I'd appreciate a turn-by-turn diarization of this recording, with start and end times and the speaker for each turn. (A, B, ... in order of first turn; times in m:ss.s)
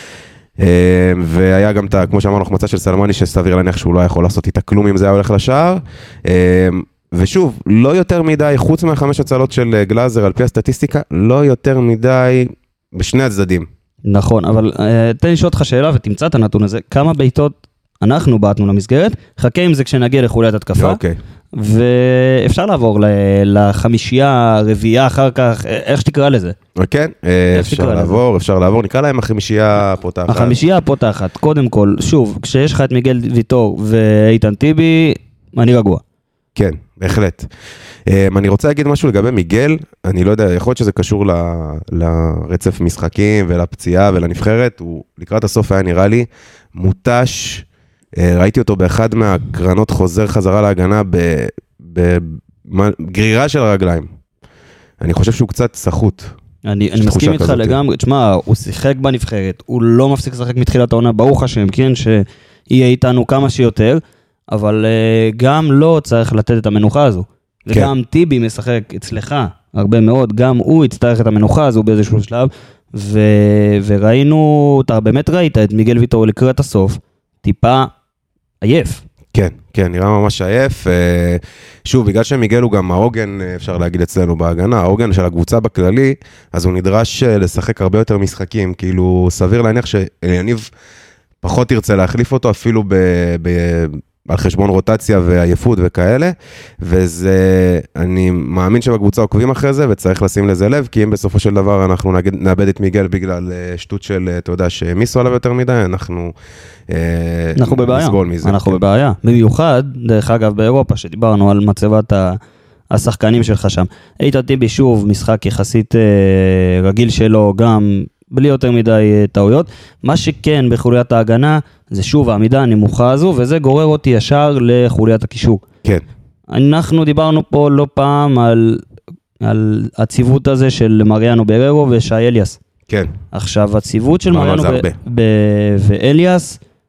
0:00.6-0:13.7 A
0:14.1-0:21.0 B
0:20.8-0:21.2 A
0:21.5-0:26.6 B
0:26.8-0:30.6 A
0:27.5-0:28.2 B
0:30.3-0:36.0 B
0:36.6-0:37.5 A
0:38.1-0:47.7 A
0:48.2-0:54.1 A
0:55.0-0:56.3 A
0:56.6-1:17.9 B
0:57.0-0:57.8 A
1:18.6-1:19.0 B
1:19.3-1:30.7 A
1:31.4-1:46.3 A
1:46.9-1:48.8 A
1:47.6-1:52.4 B
1:52.9-2:05.6 B
2:06.5-2:08.8 B
2:09.4-2:12.6 B
2:13.3-2:16.6 B
2:14.3-2:15.0 A